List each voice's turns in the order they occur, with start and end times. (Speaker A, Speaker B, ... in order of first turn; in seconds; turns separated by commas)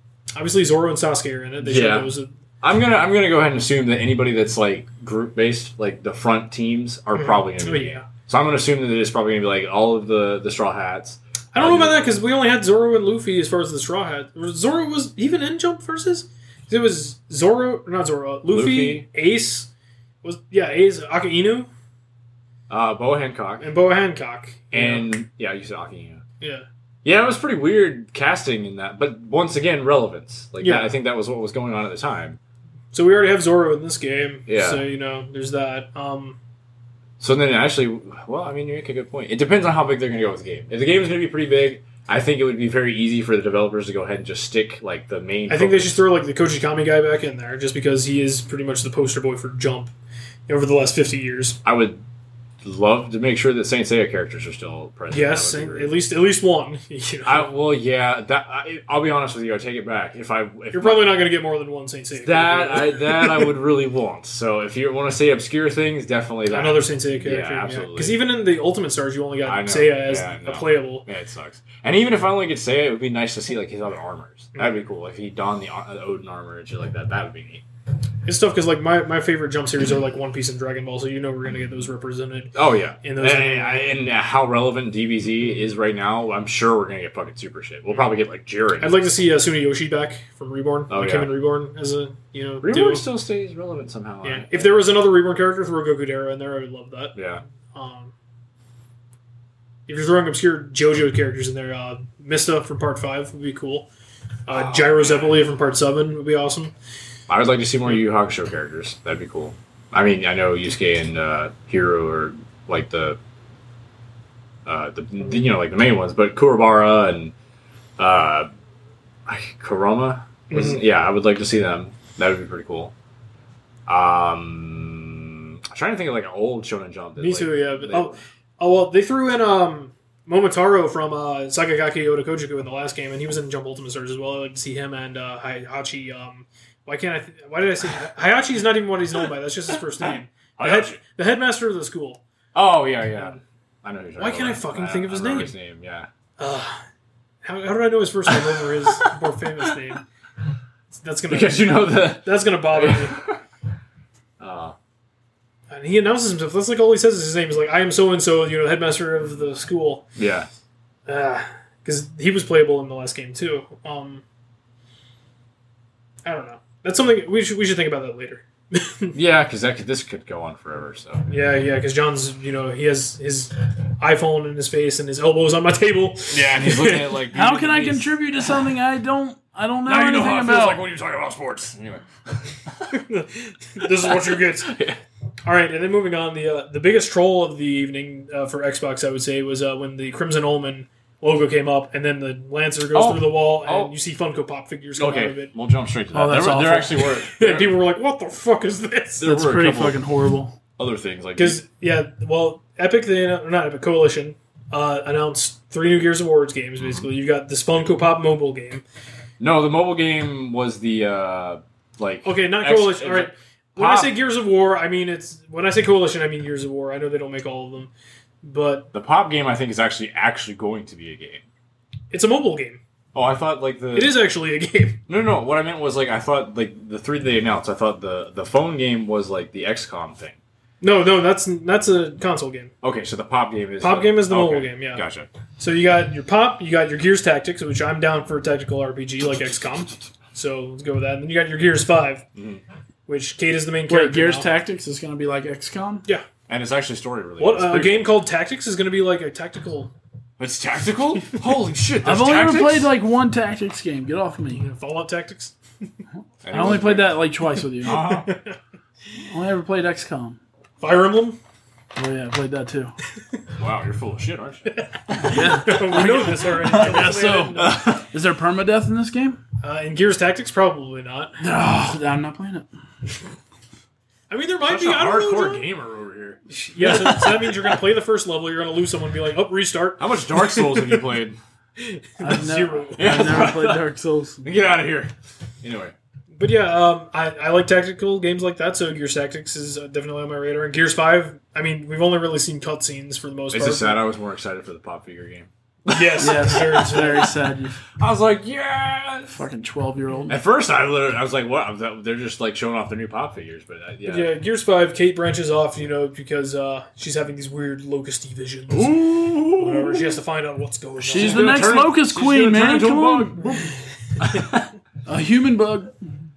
Speaker A: 0.3-2.3, Speaker B: 1.6-12.1, Speaker A: 7.1-8.1, Speaker A: 11.5-19.7, Speaker B: 18.5-19.1, Speaker A: 20.2-21.7, Speaker B: 22.7-23.7, Speaker A: 23.6-25.1, Speaker B: 24.7-26.2, Speaker A: 26.4-26.6, Speaker B: 27.0-32.4, Speaker A: 30.6-30.9, Speaker A: 32.9-36.4, Speaker B: 34.5-34.8, Speaker B: 37.2-46.0, Speaker A: 45.5-49.9, Speaker A: 50.5-51.6, Speaker B: 51.6-52.0, Speaker B: 52.6-56.0, Speaker A: 55.1-57.5, Speaker B: 57.2-61.2, Speaker A: 60.7-63.5, Speaker B: 62.2-68.2, Speaker A: 66.5-71.0, Speaker B: 69.4-77.6, Speaker A: 78.3-83.9, Speaker B: 82.5-89.0, Speaker A: 88.8-93.0, Speaker B: 90.9-91.3, Speaker B: 92.6-94.7, Speaker A: 94.2-97.2, Speaker B: 97.1-97.4, Speaker A: 97.7-98.1, Speaker A: 99.9-103.9, Speaker A: 104.5-106.7, Speaker B: 104.5-105.4, Speaker B: 107.3-113.2, Speaker B: 114.7-117.3, Speaker B: 118.0-118.5, Speaker B: 119.3-122.9, Speaker A: 120.5-120.8, Speaker B: 123.9-128.1, Speaker A: 127.2-142.2, Speaker B: 140.0-141.0, Speaker B: 142.5-146.1, Speaker A: 144.2-145.5, Speaker A: 146.4-146.8, Speaker A: 147.4-150.0, Speaker B: 148.3-149.8, Speaker A: 150.9-153.1, Speaker B: 151.3-153.4, Speaker B: 154.4-154.8, Speaker A: 155.7-160.1, Speaker B: 160.2-160.5, Speaker A: 161.1-164.2, Speaker A: 166.2-169.1, Speaker B: 169.1-171.3, Speaker A: 171.3-177.2, Speaker B: 176.3-178.2, Speaker C: 177.3-180.8, Speaker B: 179.9-182.9, Speaker A: 182.9-184.7, Speaker B: 183.8-185.0, Speaker A: 185.4-195.5, Speaker B: 192.9-193.9, Speaker B: 195.0-197.8, Speaker C: 196.1-196.9, Speaker A: 196.9-199.3, Speaker B: 199.2-200.1, Speaker C: 199.2-200.6, Speaker B: 200.8-201.6, Speaker A: 201.3-208.8, Speaker B: 209.4-214.1, Speaker A: 212.2-217.9, Speaker A: 218.4-218.9, Speaker B: 218.9-221.4, Speaker A: 222.1-222.8, Speaker B: 223.1-224.2, Speaker A: 223.9-225.0, Speaker B: 225.1-230.4, Speaker A: 230.8-232.7, Speaker B: 232.8-235.3, Speaker A: 233.8-235.0, Speaker A: 235.6-242.2, Speaker B: 242.3-242.6, Speaker A: 243.1-244.5, Speaker C: 243.9-246.0, Speaker B: 246.5-248.1, Speaker A: 247.4-249.9, Speaker B: 250.4-252.9, Speaker C: 252.0-254.6, Speaker A: 254.6-255.6, Speaker B: 256.4-257.2, Speaker C: 256.5-258.2, Speaker B: 257.8-258.3, Speaker A: 257.9-258.5, Speaker C: 259.3-260.4, Speaker A: 260.8-261.4, Speaker C: 261.9-262.9, Speaker B: 263.6-264.7, Speaker A: 265.1-267.9, Speaker C: 265.1-269.4, Speaker B: 267.6-268.0, Speaker A: 269.6-271.4, Speaker C: 271.4-272.7, Speaker A: 274.3-275.7, Speaker B: 274.6-277.0, Speaker A: 276.5-281.1, Speaker C: 276.8-277.4, Speaker B: 280.0-281.4, Speaker A: 281.8-283.5, Speaker C: 282.2-284.4, Speaker B: 283.0-283.9, Speaker B: 284.4-285.9, Speaker A: 286.4-294.0, Speaker B: 293.5-297.0, Speaker A: 295.9-297.3, Speaker C: 296.2-297.8, Speaker B: 298.0-299.3, Speaker C: 299.3-300.4, Speaker B: 300.3-304.4, Speaker A: 304.1-309.0, Speaker B: 308.7-310.2, Speaker A: 309.5-311.7, Speaker C: 311.0-313.6, Speaker B: 311.1-314.7, Speaker C: 315.1-315.9